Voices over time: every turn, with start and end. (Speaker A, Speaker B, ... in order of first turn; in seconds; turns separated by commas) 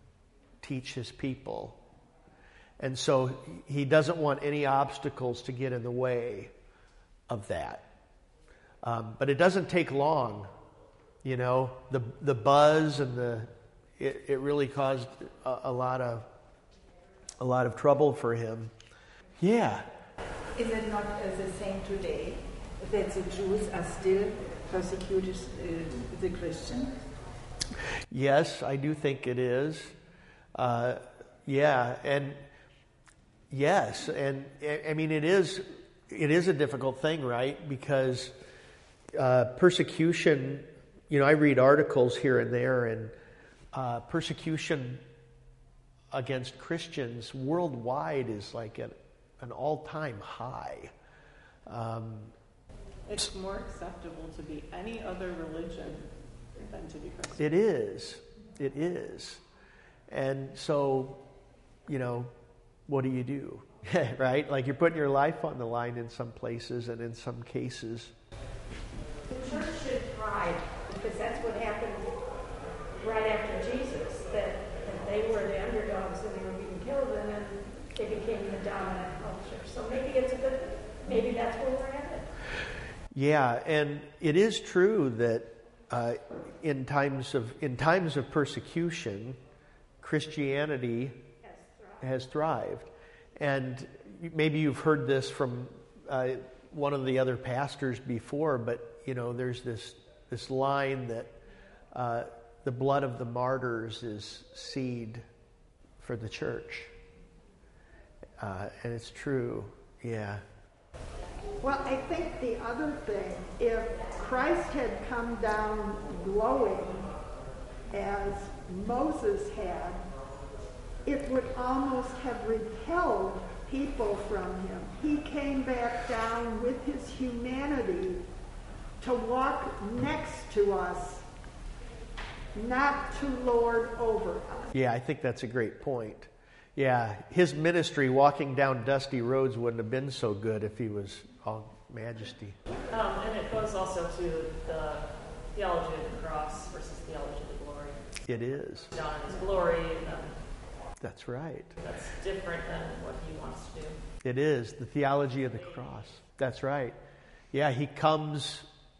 Speaker A: 0.6-1.8, Speaker A: 2.8-6.5, Speaker A: 7.3-7.9, Speaker A: 8.8-10.5, Speaker A: 11.2-16.3, Speaker A: 17.4-18.7, Speaker A: 19.4-19.9, Speaker B: 20.5-27.0, Speaker A: 28.1-29.9, Speaker A: 30.5-32.4, Speaker A: 33.5-38.3, Speaker A: 39.1-43.1, Speaker A: 43.7-45.0, Speaker A: 46.1-50.9, Speaker A: 51.7-52.3, Speaker C: 53.1-57.4, Speaker A: 57.4-59.4, Speaker A: 60.1-61.2, Speaker A: 61.9-62.3, Speaker A: 62.9-68.1, Speaker D: 69.3-72.1, Speaker D: 73.0-82.3, Speaker A: 83.1-89.4, Speaker A: 90.0-91.2, Speaker A: 92.0-101.3, Speaker A: 101.9-105.2, Speaker A: 106.0-106.9, Speaker A: 108.4-110.4, Speaker E: 111.6-117.1, Speaker E: 117.9-120.0, Speaker E: 121.0-128.2, Speaker E: 129.0-131.2, Speaker E: 132.5-134.7, Speaker A: 134.7-142.6, Speaker F: 142.9-148.0, Speaker A: 148.3-148.9, Speaker F: 148.9-150.3, Speaker A: 151.0-151.7, Speaker F: 151.8-154.0, Speaker A: 154.2-157.0, Speaker A: 157.5-158.7